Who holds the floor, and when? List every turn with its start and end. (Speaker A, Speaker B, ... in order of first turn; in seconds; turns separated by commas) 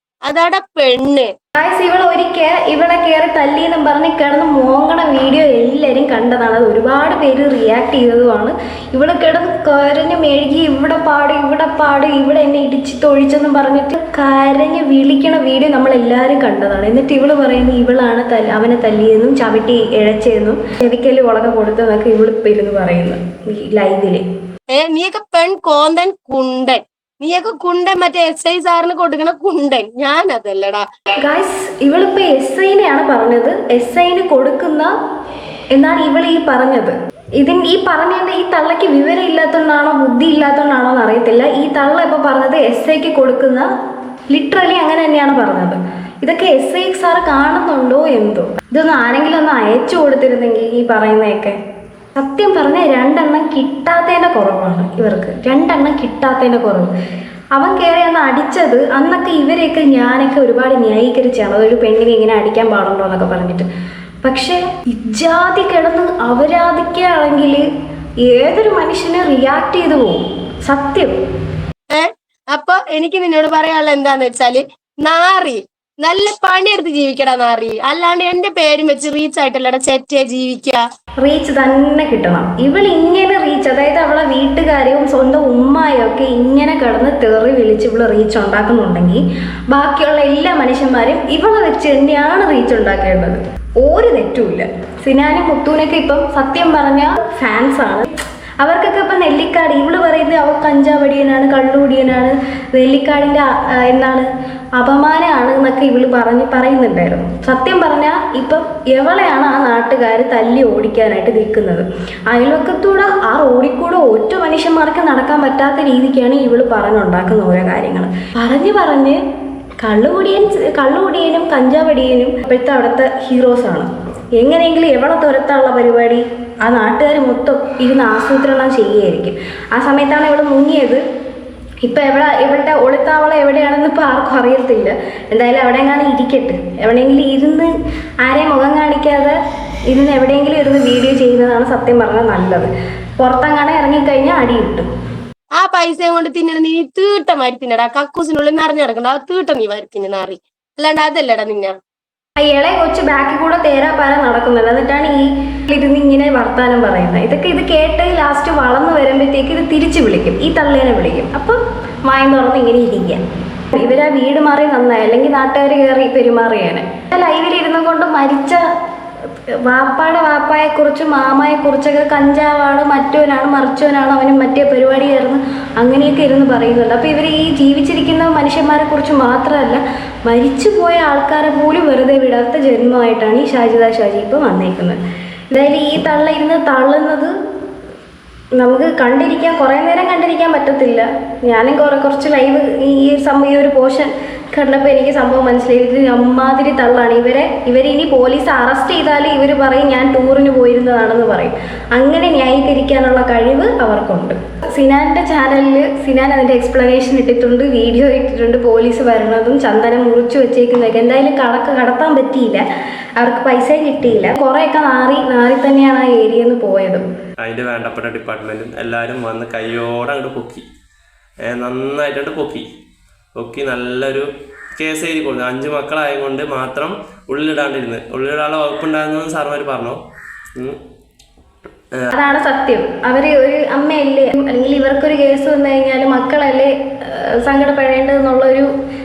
Speaker A: 0.2-1.3, Speaker B: 1.6-24.2, Speaker A: 24.7-30.8, Speaker B: 31.2-34.9, Speaker B: 35.7-43.7, Speaker B: 44.3-51.6, Speaker B: 52.1-56.9, Speaker B: 57.5-63.7, Speaker B: 64.2-67.6, Speaker B: 68.2-71.1, Speaker A: 71.9-80.8, Speaker B: 81.2-98.1, Speaker B: 98.6-104.2, Speaker B: 104.8-119.2, Speaker B: 119.8-131.0, Speaker B: 131.8-137.7, Speaker B: 138.2-139.3, Speaker B: 139.9-144.9, Speaker A: 145.6-151.7, Speaker B: 152.4-163.2, Speaker B: 163.7-168.6, Speaker B: 169.6-185.0, Speaker B: 185.5-187.3, Speaker B: 188.6-212.6, Speaker B: 213.2-217.1, Speaker C: 217.4-220.6, Speaker C: 221.4-222.6, Speaker C: 223.3-230.0, Speaker B: 232.1-238.7